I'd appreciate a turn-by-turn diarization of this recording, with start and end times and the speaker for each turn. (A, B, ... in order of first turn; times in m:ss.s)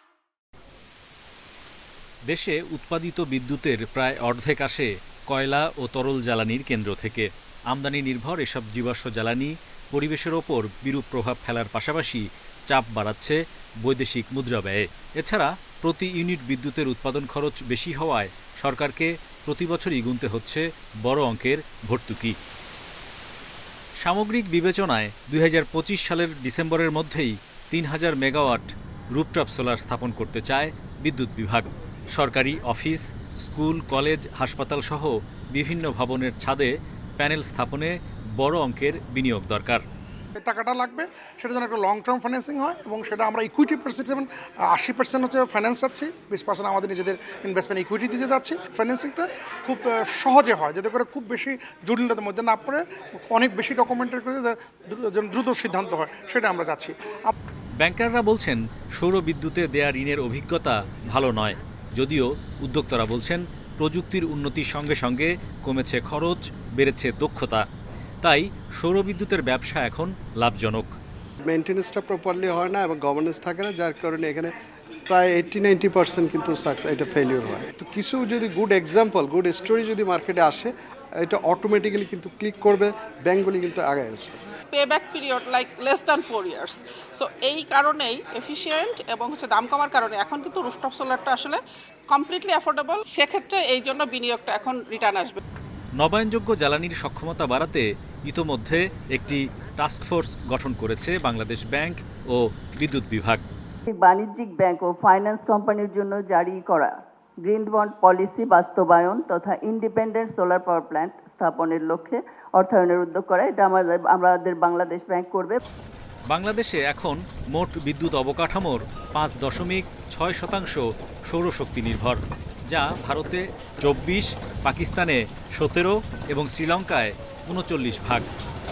0:02.3-0:22.4 A
0:24.0-0:39.8 A
0:40.4-0:57.3 B
0:57.8-1:07.6 A
1:08.2-1:11.0 A
1:11.4-1:14.5 C
1:15.1-1:24.4 C
1:24.7-1:35.4 D
1:36.0-1:43.4 A
1:43.9-1:46.9 E
1:47.4-1:55.6 E
1:56.3-2:08.3 A